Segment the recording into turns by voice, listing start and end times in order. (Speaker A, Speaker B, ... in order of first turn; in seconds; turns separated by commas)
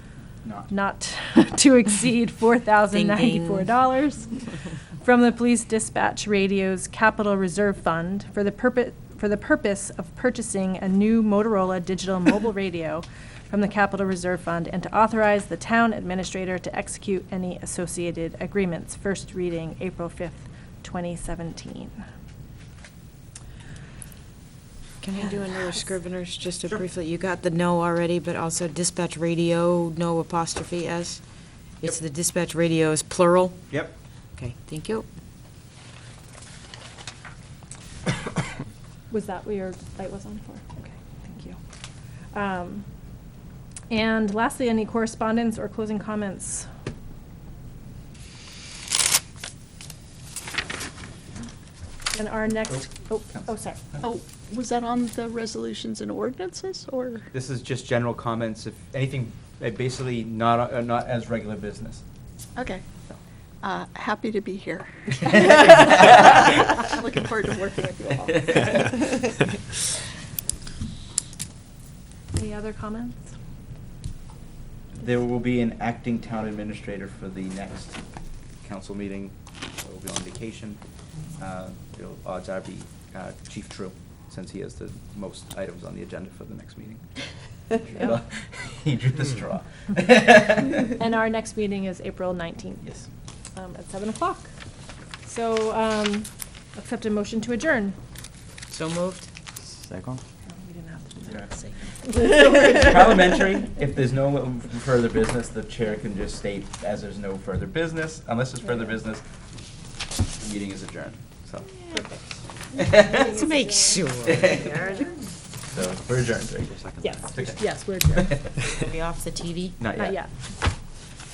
Speaker A: 0.5-0.7, Speaker B: 0.7-4.4, Speaker C: 2.9-3.7, Speaker B: 5.0-22.0, Speaker C: 25.0-31.2, Speaker C: 31.8-33.7, Speaker C: 34.4-35.1, Speaker B: 39.1-41.6, Speaker B: 42.3-42.9, Speaker B: 43.9-46.7, Speaker B: 52.1-53.8, Speaker D: 54.0-57.3, Speaker A: 57.3-62.0, Speaker D: 62.6-62.9, Speaker D: 63.6-69.2, Speaker B: 72.3-73.3, Speaker A: 74.9-78.0, Speaker A: 78.6-80.8, Speaker A: 81.4-87.1, Speaker A: 87.8-91.0, Speaker B: 90.9-92.8, Speaker B: 93.6-94.5, Speaker B: 95.2-98.0, Speaker C: 98.7-99.3, Speaker B: 100.5-101.7, Speaker A: 101.3-101.5, Speaker A: 102.1-109.2, Speaker A: 110.3-111.7, Speaker A: 112.8-113.3, Speaker B: 112.8-114.0, Speaker C: 113.2-115.1, Speaker A: 114.3-114.8, Speaker A: 115.7-117.6, Speaker B: 117.0-118.4, Speaker A: 118.2-118.4, Speaker C: 118.7-119.8, Speaker A: 119.8-120.2, Speaker B: 120.0-120.3